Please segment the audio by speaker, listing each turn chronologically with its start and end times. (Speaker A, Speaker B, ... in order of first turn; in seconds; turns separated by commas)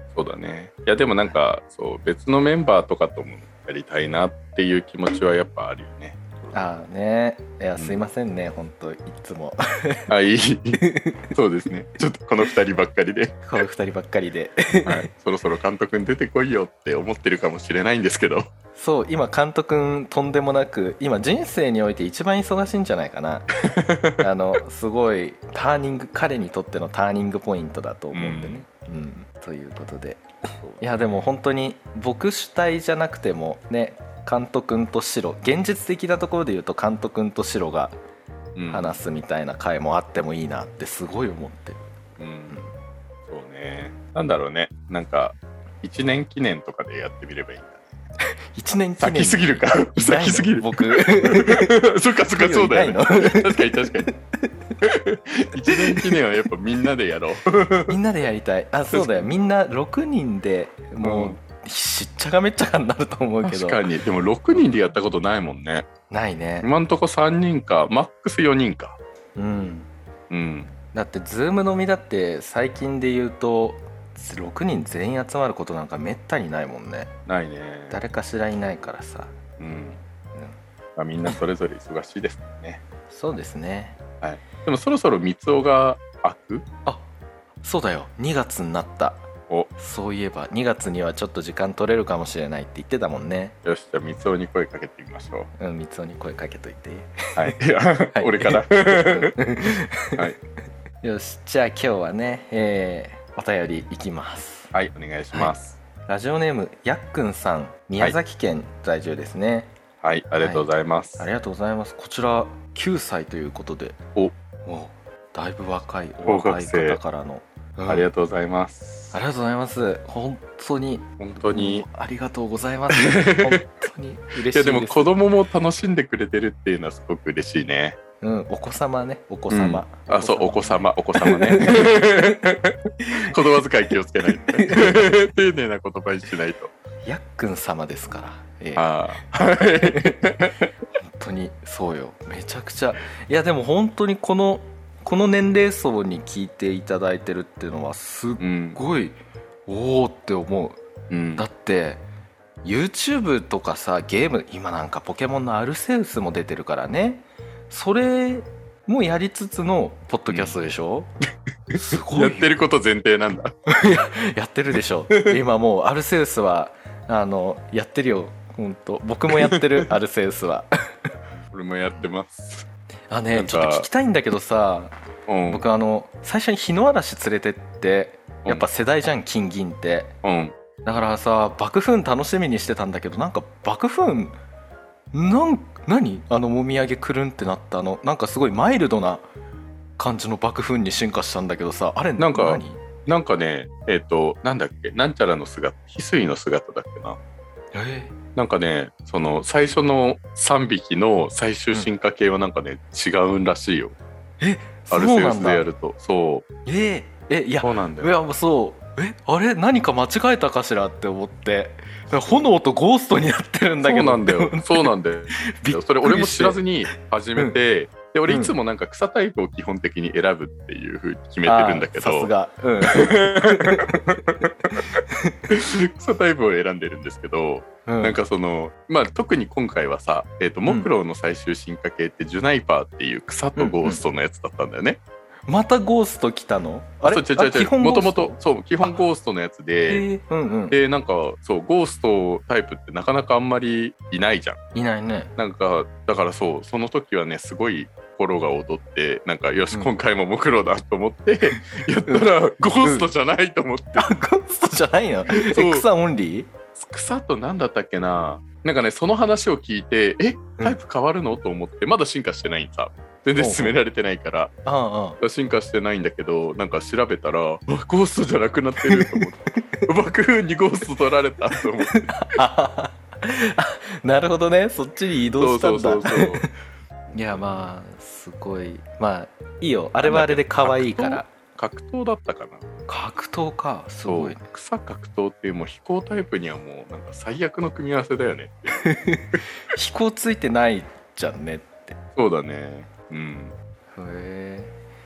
Speaker A: 0.1-6.5, Speaker B: 6.5-10.1, Speaker A: 10.1-10.8, Speaker B: 10.8-11.3, Speaker A: 11.3-13.4, Speaker B: 13.4-15.1, Speaker A: 14.8-18.5, Speaker B: 18.8-23.5, Speaker A: 23.6-24.2, Speaker B: 24.2-30.2, Speaker A: 28.1-28.6, Speaker A: 30.6-31.2, Speaker B: 30.8-38.0, Speaker A: 38.5-39.0, Speaker B: 38.7-41.8, Speaker A: 42.2-42.6, Speaker A: 43.3-47.8, Speaker B: 48.5-54.2, Speaker A: 49.0-54.1, Speaker A: 54.8-57.9, Speaker B: 55.7-56.2, Speaker B: 57.9-63.8, Speaker A: 58.9-59.3, Speaker A: 61.0-61.4, Speaker A: 63.4-65.8, Speaker B: 66.1-66.7, Speaker A: 66.6-69.0, Speaker B: 69.3-69.9, Speaker A: 70.3-70.7, Speaker B: 70.9-77.1, Speaker A: 77.3-78.0, Speaker B: 77.9-79.3, Speaker A: 79.6-80.0, Speaker A: 81.0-82.8, Speaker B: 83.1-84.0, Speaker A: 84.2-86.6, Speaker B: 87.6-89.2, Speaker B: 89.8-93.5, Speaker A: 93.6-95.5, Speaker B: 95.6-97.6, Speaker A: 97.3-99.3, Speaker B: 98.1-100.2, Speaker B: 101.0-104.7, Speaker A: 104.7-105.8, Speaker B: 106.1-109.7, Speaker A: 110.0-111.3, Speaker B: 110.4-114.0, Speaker B: 114.6-118.1, Speaker A: 116.2-117.0, Speaker A: 117.9-119.2, Speaker B: 119.1-125.2, Speaker A: 121.2-121.8, Speaker A: 122.9-123.6, Speaker A: 124.5-128.0, Speaker B: 128.2-132.0, Speaker A: 129.5-136.7, Speaker B: 133.0-133.3, Speaker B: 134.4-135.1, Speaker B: 137.1-138.8, Speaker A: 138.8-140.7, Speaker B: 139.8-140.2, Speaker B: 141.0-150.8, Speaker A: 148.4-148.8, Speaker A: 151.1-151.4, Speaker B: 151.4-152.0, Speaker B: 152.6-161.1, Speaker A: 160.3-160.5, Speaker A: 161.7-163.5, Speaker B: 161.7-162.5, Speaker B: 163.7-170.7, Speaker A: 169.3-169.6, Speaker A: 171.5-172.7, Speaker B: 173.1-174.9, Speaker A: 173.3-173.9, Speaker A: 175.3-175.6, Speaker B: 175.5-180.1, Speaker A: 180.2-180.6, Speaker B: 180.8-184.4, Speaker B: 185.1-189.2, Speaker B: 190.0-192.8, Speaker A: 192.2-197.2, Speaker B: 197.7-198.1, Speaker A: 198.3-203.9, Speaker B: 204.4-205.7, Speaker A: 204.9-206.4, Speaker B: 206.7-216.6, Speaker A: 207.6-208.1, Speaker A: 213.8-222.3, Speaker B: 218.3-218.5, Speaker B: 221.4-224.2, Speaker A: 222.9-224.9, Speaker B: 224.8-225.4, Speaker A: 225.5-235.0, Speaker B: 227.8-228.2, Speaker B: 233.6-234.0, Speaker B: 235.5-238.9, Speaker A: 237.1-240.1, Speaker B: 239.9-240.8, Speaker A: 240.7-244.6, Speaker B: 244.7-245.3, Speaker A: 245.4-254.1, Speaker B: 251.5-252.3, Speaker B: 252.8-253.1, Speaker B: 254.0-256.5, Speaker A: 255.3-255.8, Speaker A: 256.7-264.5, Speaker B: 263.4-263.7, Speaker B: 264.6-265.2, Speaker A: 265.2-271.9, Speaker B: 268.8-269.9, Speaker B: 271.9-276.5, Speaker A: 275.4-276.4, Speaker B: 277.1-281.3, Speaker A: 277.2-277.4, Speaker A: 280.0-282.6, Speaker B: 282.9-284.4, Speaker A: 284.0-288.8, Speaker B: 288.8-292.0, Speaker A: 292.1-293.5, Speaker B: 293.9-294.7